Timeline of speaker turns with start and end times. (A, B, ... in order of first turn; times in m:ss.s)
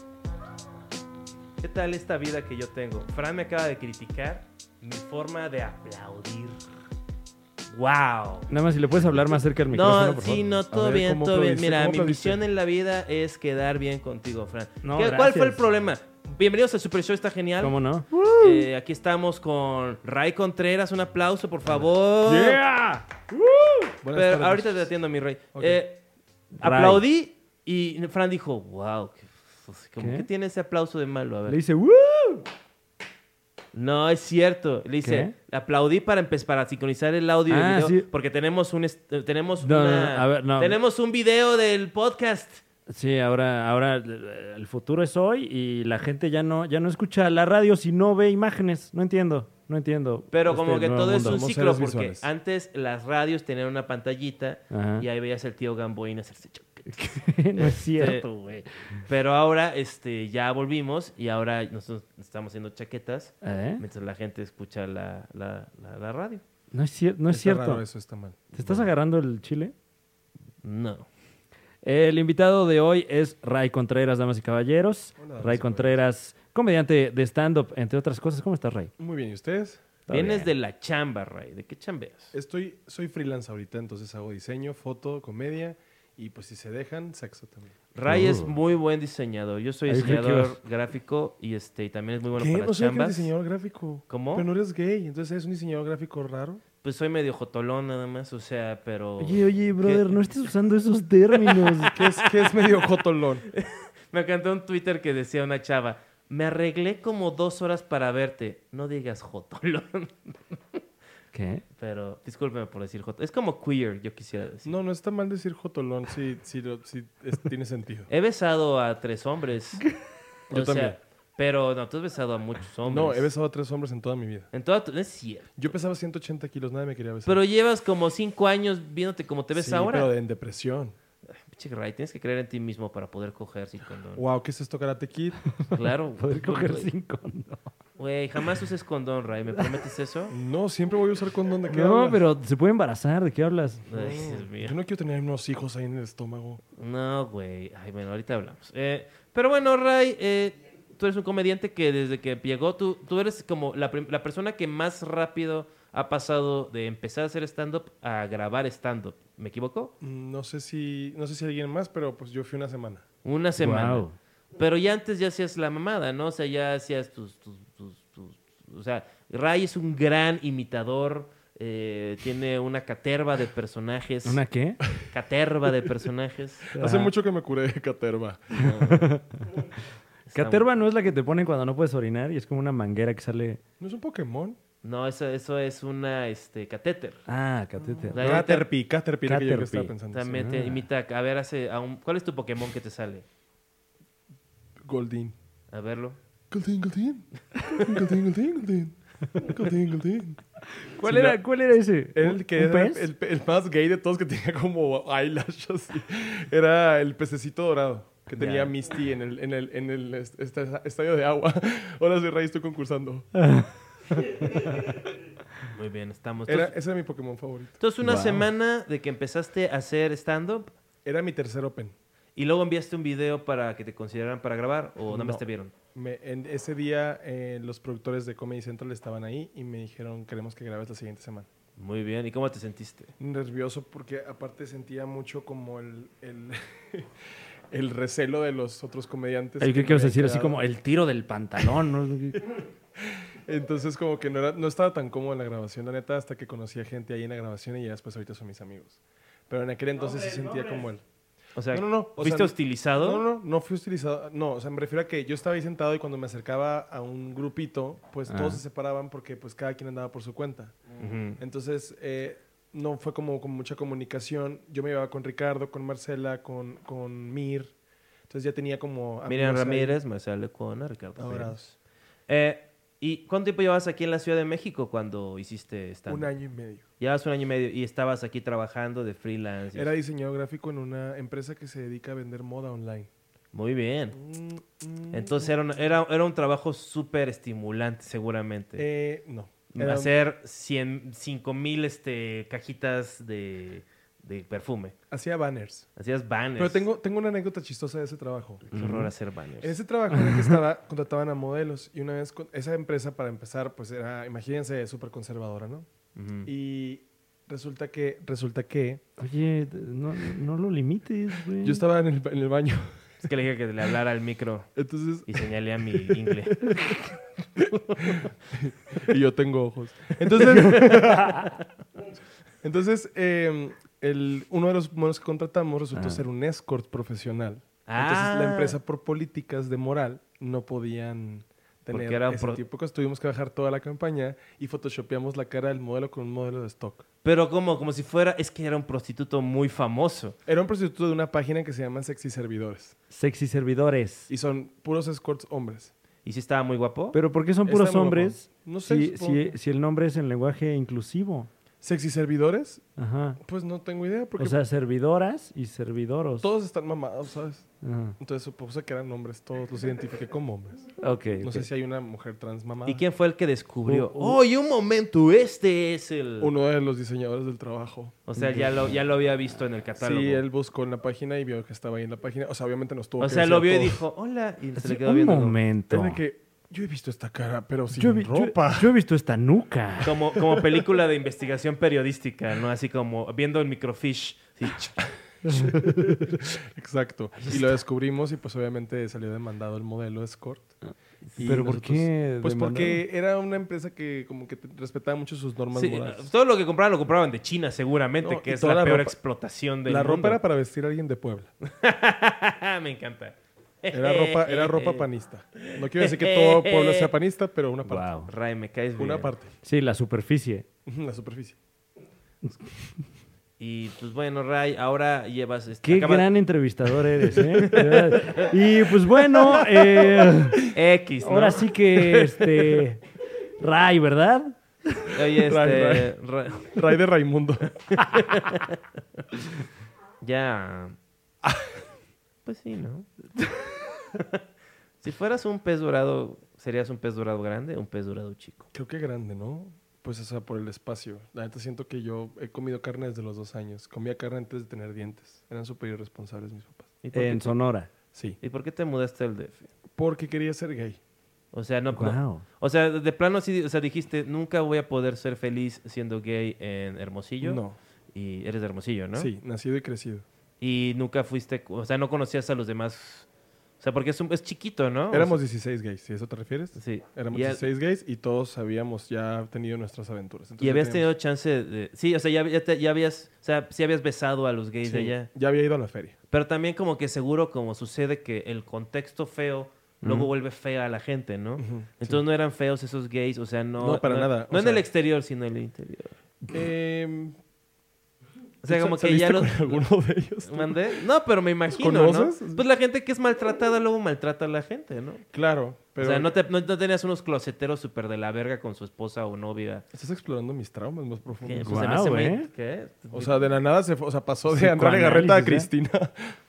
0:01.6-0:06.6 A
0:07.7-0:08.5 A
0:08.5-0:10.4 B
0:09.7-0:22.6 A
0:10.7-0:12.4 C
0:14.8-0:15.6 B
0:17.6-0:18.2 B
0:22.2-0:23.8 B
0:24.0-0:24.9 C
0:24.1-0:26.0 A
0:25.5-0:25.8 C
0:26.6-0:27.0 B
0:26.6-0:31.6 A
0:30.0-0:30.2 B
0:31.5-0:32.4 B
0:33.7-0:42.6 A
0:35.0-0:35.3 B
0:37.5-0:38.0 B
0:39.6-0:40.8 B
0:42.9-0:51.4 B
0:50.3-0:57.0 A
0:51.2-0:52.3 C
0:54.7-0:55.0 B
0:56.9-0:58.7 B
0:57.5-0:58.3 A
0:59.1-1:06.4 A
1:03.4-1:03.8 B
1:06.7-1:07.8 B
1:07.3-1:08.9 C
1:08.5-1:09.7 B
1:10.6-1:11.1 A
1:11.8-1:18.9 B
1:15.2-1:16.0 C
1:19.0-1:19.8 C
1:20.1-1:20.5 B
1:20.1-1:22.3 A
1:22.3-1:27.7 C
1:27.9-1:33.3 A
1:28.0-1:28.5 B
1:29.9-1:30.6 B
1:32.4-1:36.6 C
1:34.1-1:34.5 A
1:36.8-1:40.2 A
1:39.2-1:41.9 B
1:41.3-1:42.8 A
1:41.9-1:43.4 C
1:43.5-1:50.8 A
1:51.3-1:51.6 B
1:51.8-1:54.7 A
1:54.6-1:58.1 C
1:58.1-1:59.8 A
2:00.5-2:01.0 C
2:00.5-2:03.3 A
2:02.8-2:04.5 C
2:04.5-2:05.7 A
2:05.6-2:07.4 C
2:07.2-2:10.1 A
2:09.5-2:10.9 C
2:11.3-2:14.2 A
2:14.1-2:15.4 C
2:15.6-2:17.7 B
2:15.7-2:16.9 A
2:18.0-2:20.3 A
2:20.3-2:22.2 C
2:21.7-2:23.8 B
2:23.9-2:24.8 A
2:23.9-2:26.6 C
2:26.8-2:39.9 A
2:40.0-2:43.0 C
2:43.2-2:44.0 A
2:43.6-2:44.2 B
2:44.6-2:54.4 A
2:54.2-2:54.8 B
2:54.9-2:56.7 A
2:56.7-2:57.1 B
2:56.7-2:59.1 C
2:58.8-2:59.4 B
3:00.3-3:00.6 A
3:00.3-3:03.6 B
3:03.8-3:04.6 C
3:04.8-3:07.2 A
3:07.3-3:08.4 B
3:08.0-3:10.3 C
3:08.1-3:08.7 A
3:09.2-3:10.8 B
3:10.1-3:13.2 A
3:14.8-3:15.3 C
3:15.7-3:16.2 A
3:16.5-3:20.4 C
3:17.7-3:18.0 A
3:20.8-3:23.0 B
3:21.0-3:21.4 C
3:22.1-3:33.3 C
3:28.3-3:28.7 A
3:33.3-3:33.7 B
3:34.5-3:34.8 B
3:35.7-3:36.7 A
3:36.5-3:37.8 C
3:37.8-3:40.7 A
3:38.0-3:38.4 B
3:41.0-3:41.9 C
3:42.4-3:45.7 A
3:45.1-3:45.4 C
3:45.9-3:51.5 C
3:51.8-3:53.1 A
3:53.2-3:57.1 C
3:57.7-4:00.6 C
3:59.6-4:02.5 B
4:03.0-4:11.0 C
4:11.6-4:13.2 A
4:11.7-4:27.7 C
4:18.3-4:18.6 B
4:21.0-4:21.4 A
4:28.3-4:30.0 C
4:29.3-4:31.6 A
4:31.2-4:31.7 C
4:32.3-4:36.3 A
4:36.1-4:36.8 C
4:37.0-4:39.9 A
4:39.7-4:43.1 C
4:43.5-4:44.2 A
4:44.1-4:45.5 C
4:45.1-4:48.8 A
4:48.8-4:50.1 C
4:49.7-4:54.9 A
4:55.1-4:55.9 C
4:56.0-4:56.8 A
4:56.6-4:58.6 C
4:58.7-4:59.7 A
4:58.7-4:59.1 B
4:59.6-5:05.9 C
5:00.1-5:00.6 B
5:06.1-5:06.5 A
5:06.4-5:09.0 C
5:09.2-5:11.8 B
5:11.6-5:13.2 C
5:13.2-5:14.7 A
5:14.8-5:17.0 C
5:15.3-5:16.9 A
5:17.6-5:21.5 C
5:17.7-5:18.2 A
5:20.7-5:20.9 A
5:20.7-5:21.5 B
5:22.6-5:37.0 C
5:25.9-5:26.2 B
5:27.9-5:28.8 A
5:31.9-5:32.6 A
5:37.2-5:40.4 A
5:40.4-5:42.9 C
5:43.1-5:44.3 B
5:44.3-5:45.9 C
5:46.2-5:47.2 A
5:47.1-5:51.5 B
5:47.6-5:49.5 C
5:51.8-5:52.8 C
5:53.0-5:53.4 B
5:53.4-5:54.6 C
5:54.4-5:56.5 B
5:56.4-5:57.7 C
5:57.8-5:58.2 B
5:58.2-6:00.9 C
6:01.0-6:01.6 B
6:01.4-6:03.0 C
6:02.8-6:06.5 A
6:03.8-6:04.4 B
6:06.4-6:09.0 C
6:08.3-6:10.4 A
6:10.0-6:14.0 C
6:13.2-6:15.6 A
6:14.8-6:16.2 B
6:15.9-6:18.9 C
6:18.0-6:20.1 B
6:20.0-6:25.0 A
6:25.4-6:26.4 B
6:25.5-6:30.7 C
6:27.4-6:27.7 A
6:31.3-6:36.2 C
6:31.4-6:33.0 B
6:35.7-6:40.4 A
6:38.2-6:39.2 C
6:39.8-6:41.5 C
6:41.6-6:47.1 A
6:43.9-6:48.1 C
6:47.8-6:48.3 B
6:48.3-6:49.3 A
6:49.0-6:49.5 C
6:49.6-6:50.6 B
6:50.8-6:51.6 C
6:53.6-6:56.3 A
6:55.8-7:00.6 B
6:57.4-6:58.3 C
6:57.6-6:58.5 A
6:59.3-7:00.7 C
7:00.7-7:01.7 A
7:01.2-7:03.0 B
7:02.1-7:02.8 C
7:03.6-7:04.6 B
7:05.1-7:06.8 A
7:05.3-7:07.8 C
7:07.9-7:08.8 A
7:10.2-7:11.0 A
7:12.4-7:13.1 A
7:14.1-7:14.4 A
7:15.0-7:18.7 A
7:18.7-7:26.9 C
7:27.0-7:27.5 A
7:27.1-7:27.9 B
7:28.4-7:29.7 A
7:29.9-7:31.0 C
7:31.5-7:37.6 A
7:31.9-7:32.4 B
7:37.4-7:37.8 C
7:38.1-7:39.3 A
7:39.1-7:40.2 C
7:40.6-7:43.3 A
7:43.8-7:45.4 A
7:45.1-7:51.1 C
7:46.8-7:47.6 A
7:50.6-7:55.3 A
7:54.8-7:56.1 C
7:56.3-8:06.1 A
8:00.0-8:00.3 B
8:01.6-8:02.2 C
8:03.8-8:04.8 C
8:06.4-8:07.4 C
8:08.6-8:09.8 A
8:08.7-8:11.0 C
8:10.4-8:15.2 A
8:11.7-8:12.6 C
8:15.3-8:16.3 C
8:16.0-8:19.8 A
8:19.9-8:21.9 C
8:21.4-8:23.6 A
8:21.6-8:22.5 B
8:23.1-8:26.4 C
8:24.5-8:25.7 B